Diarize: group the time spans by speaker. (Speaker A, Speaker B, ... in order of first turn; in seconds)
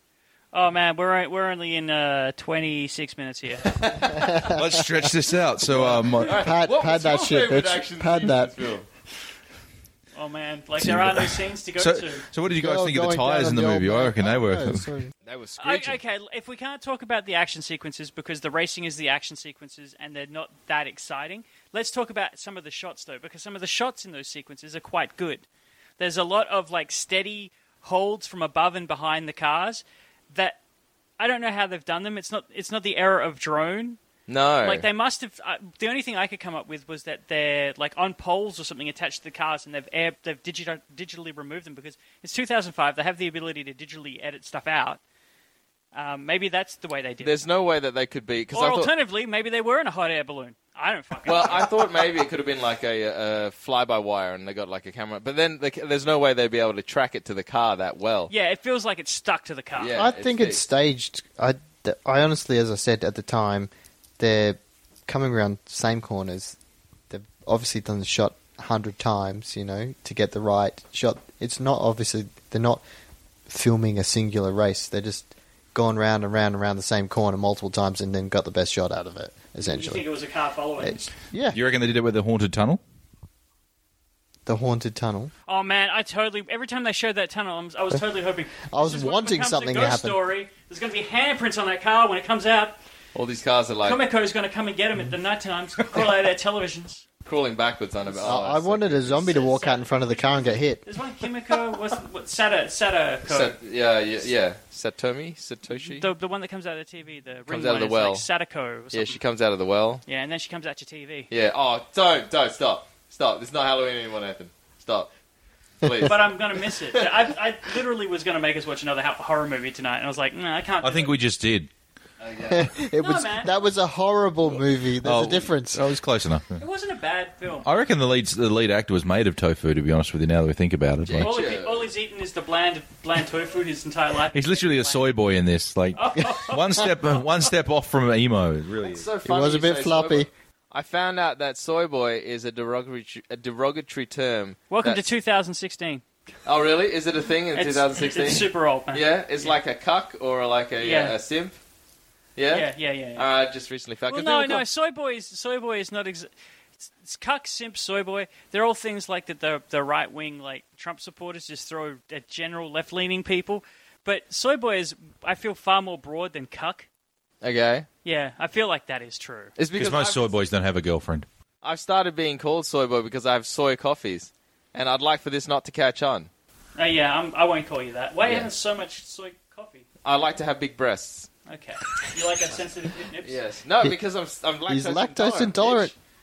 Speaker A: 0.5-3.8, 10.1-12.2, 15.6-25.4, 26.0-30.6, 31.2-34.0, 34.6-45.0, 45.9-47.4, 48.5-51.7, 58.3-59.9, 79.6-81.1, 85.5-92.8, 93.8-97.0, 99.3-103.5, 105.8-109.2, 110.0-111.3, 116.0-121.1, 123.0-123.5, 126.6-127.7, 131.2-135.1, 135.9-136.9, 144.7-146.0, 147.5-149.6, 150.8-151.2, 152.5-153.2, 154.1-166.9, 168.0-169.5, 176.8-179.8, 181.4-183.4
Speaker B: 3.7-4.4, 6.2-8.9, 15.2-16.0, 34.3-34.9, 47.2-48.9, 51.2-58.3, 59.8-60.6, 93.1-94.0, 97.2-99.5, 103.2-106.1, 107.5-108.3, 108.9-110.0, 111.3-115.1, 115.8-116.3, 122.2-122.7, 131.0-131.9, 138.8-145.0, 146.4-151.6, 152.3-154.6, 167.4-167.9, 169.6-170.3, 171.6-176.3, 180.0-181.3, 183.2-185.9
Speaker C: 4.1-5.1, 5.7-8.5, 12.5-15.1, 59.9-66.6, 67.1-72.8, 73.5-80.0, 80.8-81.6, 84.5-85.3, 88.7-90.2, 98.2-100.8, 122.5-125.9, 139.2-140.3, 184.7-185.9
Speaker D: 4.4-6.4, 10.8-14.9, 81.5-82.8, 120.8-121.7, 125.0-126.6, 127.6-131.3, 134.3-139.1, 169.7-171.3